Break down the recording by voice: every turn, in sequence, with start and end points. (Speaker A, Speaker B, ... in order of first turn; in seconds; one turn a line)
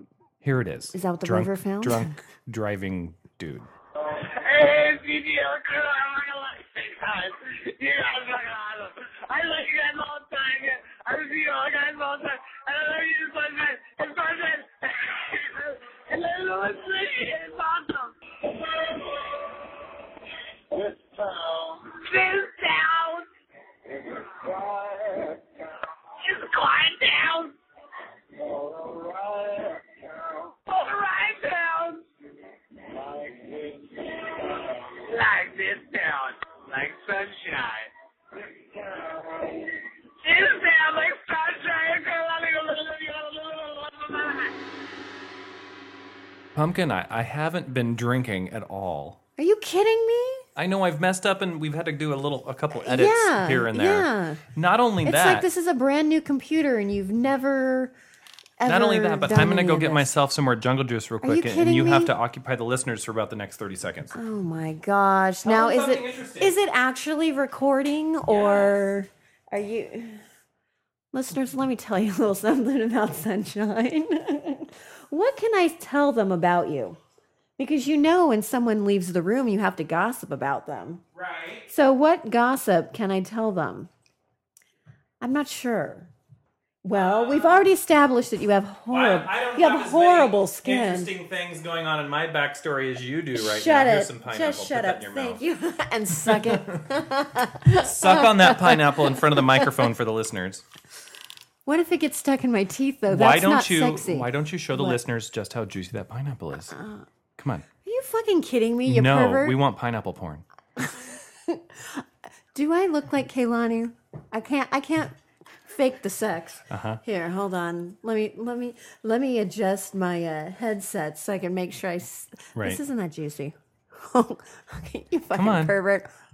Speaker A: 0.4-3.7
Speaker B: 0.9-2.1
Speaker C: 4.0-19.6
Speaker C: 20.7-23.3
Speaker C: 23.9-25.5
Speaker C: 26.2-27.6
Speaker C: 28.4-32.0
Speaker C: 32.9-44.5
Speaker A: 46.5-49.2
Speaker B: 49.4-50.5
Speaker A: 50.6-55.5
Speaker B: 52.8-54.4
Speaker B: 55.0-57.9
Speaker B: 58.6-60.1
Speaker A: 58.7-64.2
Speaker B: 61.2-62.1
Speaker B: 64.1-70.2
Speaker A: 65.4-66.6
Speaker A: 68.3-68.8
Speaker B: 71.1-77.0
Speaker B: 77.6-81.0
Speaker A: 81.2-81.7
Speaker B: 81.7-83.9
Speaker B: 85.2-86.1
Speaker B: 86.8-91.1
Speaker A: 86.9-87.7
Speaker A: 88.9-95.4
Speaker B: 93.3-99.8
Speaker A: 96.2-96.8
Speaker A: 97.7-100.7
Speaker B: 101.7-105.0
Speaker A: 103.1-106.8
Speaker B: 106.7-107.0
Speaker A: 107.4-107.7
Speaker B: 107.8-109.6
Speaker A: 108.8-110.5
Speaker B: 110.8-115.2
Speaker B: 115.7-126.1
Speaker A: 116.7-117.0
Speaker A: 122.6-122.8
Speaker A: 125.3-125.8